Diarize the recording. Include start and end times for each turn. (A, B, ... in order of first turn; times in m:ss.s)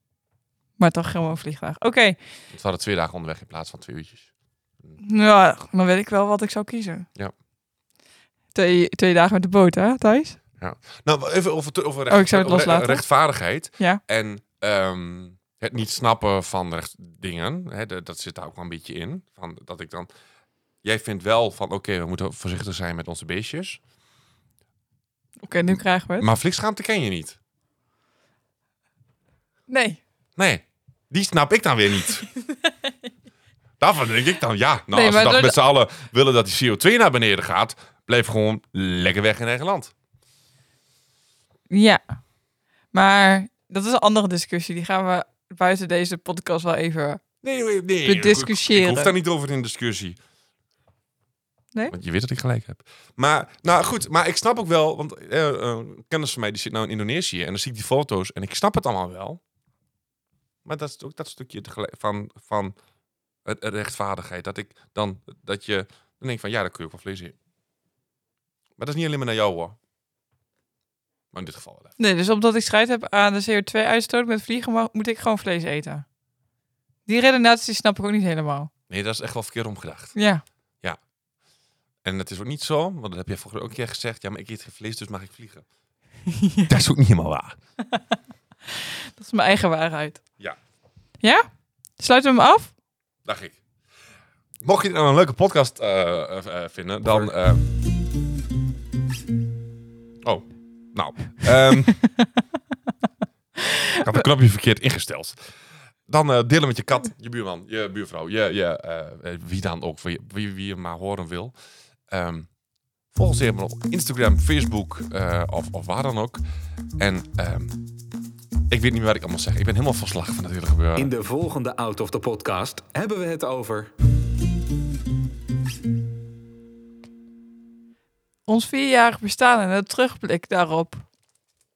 0:00.8-0:02.2 A
0:02.5-0:04.3 B
0:05.0-0:07.1 A
0:08.5-0:10.4 A
0:10.6-0:20.1 B
0:12.1-0:13.0 A
0:20.8-0:23.8 B
0:25.4-0:26.3 A
0:25.7-0:27.4 B
0:29.7-0:30.0 A
0:30.4-0:32.3 B
0:32.6-0:32.9 A
0:33.8-0:39.9 B
0:34.9-0:35.6 A
0:41.7-0:42.0 A
0:42.9-0:47.2 A
0:47.4-0:50.2 B
0:48.0-0:49.1 A
0:51.9-0:59.4 B
1:00.6-1:02.8 B
1:03.4-1:07.4 B
1:08.8-1:09.8 B
1:11.3-1:11.9 B
1:12.0-1:16.0 A
1:17.1-1:18.7 A
1:18.9-1:20.2 B
1:20.2-1:20.4 A
1:22.0-1:25.6 B
1:26.3-1:26.7 A
1:26.7-1:27.6 B
1:27.9-1:30.2 A
1:31.2-1:31.5 A
1:32.0-1:32.7 A
1:33.3-1:33.6 B
1:34.6-1:37.6 B
1:40.2-1:42.0 B
1:43.6-1:44.0 A
1:44.0-1:45.4 B
1:46.1-1:51.5 B
1:52.1-1:52.5 B
1:53.1-1:56.4 B
1:57.0-1:57.8 B
1:58.7-2:01.1 B
2:01.0-2:03.9 C
2:08.5-2:11.0 A